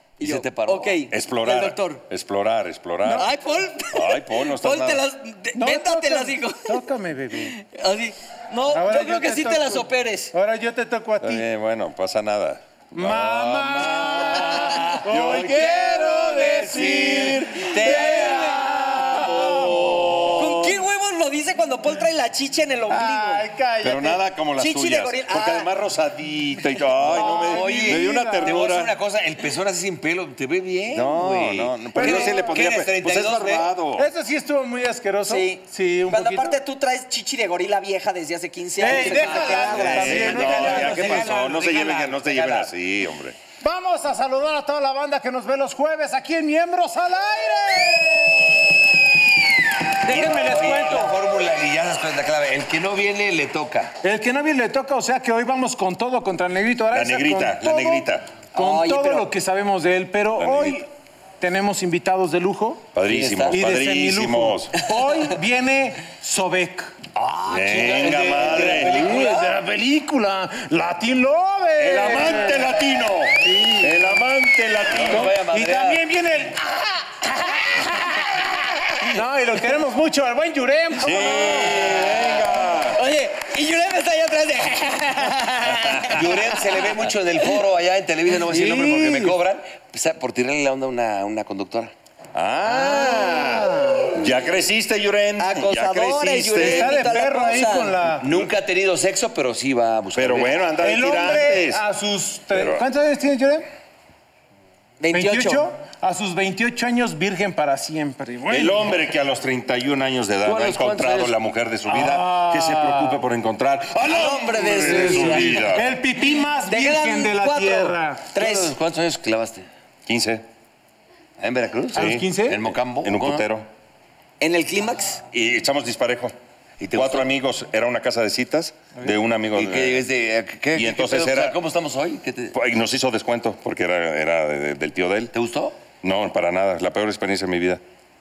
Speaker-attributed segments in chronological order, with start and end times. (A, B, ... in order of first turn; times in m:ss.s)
0:00.2-0:02.0 A
0:00.2-0:00.9 B
0:01.1-0:03.3 C
0:03.2-0:06.8 A
0:03.9-0:05.0 C
0:05.6-0:07.6 D
0:07.5-0:10.3 A
0:08.7-0:11.5 D
0:11.2-0:18.0 C
0:13.0-0:20.4 D
0:17.7-0:18.8 B
0:17.9-0:18.6 A
0:19.1-0:20.8 C
0:19.6-0:20.3 B
0:20.4-0:23.5 A
0:22.9-0:24.2 D
0:23.8-0:29.0 C
0:24.6-0:25.7 A
0:27.0-0:28.6 D
0:27.2-0:33.7 B
0:30.9-0:34.1 C
0:32.0-0:32.6 D
0:34.0-0:36.6 D
0:35.3-0:40.4 A
0:38.8-0:41.4 D
0:38.8-0:42.7 B
0:39.8-0:43.4 C
0:43.6-0:48.8 D
0:50.0-0:51.2 D
0:50.0-0:54.0 B
0:54.0-1:00.9 D
0:56.9-0:58.4 C
0:58.5-0:59.3 A
1:00.4-1:00.8 C
1:01.4-1:02.9 D
1:02.9-1:04.8 C
1:03.1-1:03.6 B
1:03.5-1:07.0 D
1:07.2-1:09.6 B
1:07.5-1:09.1 C
1:08.0-1:12.7 D
1:11.8-1:15.3 C
1:13.4-1:14.2 D
1:14.9-1:16.0 B
1:15.0-1:18.4 D
1:19.0-1:22.0 D
1:21.0-1:23.0 C
1:23.0-1:26.3 A
1:25.7-1:26.2 C
1:26.0-1:31.9 B
1:28.3-1:29.4 D
1:32.4-1:37.0 C
1:32.6-1:34.2 D
1:35.4-1:38.0 A
1:36.6-1:38.3 D
1:38.2-1:40.6 B
1:40.2-1:41.8 C
1:40.8-1:43.6 D
1:42.5-1:42.8 C
1:45.0-1:45.7 A
1:45.1-1:48.9 D
1:48.5-1:56.0 C
1:50.4-1:51.4 B
1:51.9-1:53.2 D
1:54.1-1:55.6 A
1:54.6-1:58.3 D
1:55.1-1:55.4 B
1:56.6-1:58.7 A
1:58.4-1:59.7 B
2:00.1-2:00.4 C
2:01.4-2:03.5 B
2:01.9-2:02.6 D
2:02.0-2:02.3 C
2:03.0-2:03.7 C
2:04.4-2:05.2 A
2:05.3-2:06.4 C
2:06.8-2:07.3 B
2:06.9-2:10.0 C
2:09.5-2:12.6 B
2:10.8-2:11.6 C
2:12.5-2:15.3 C
2:15.3-2:15.8 B
2:16.0-2:17.8 C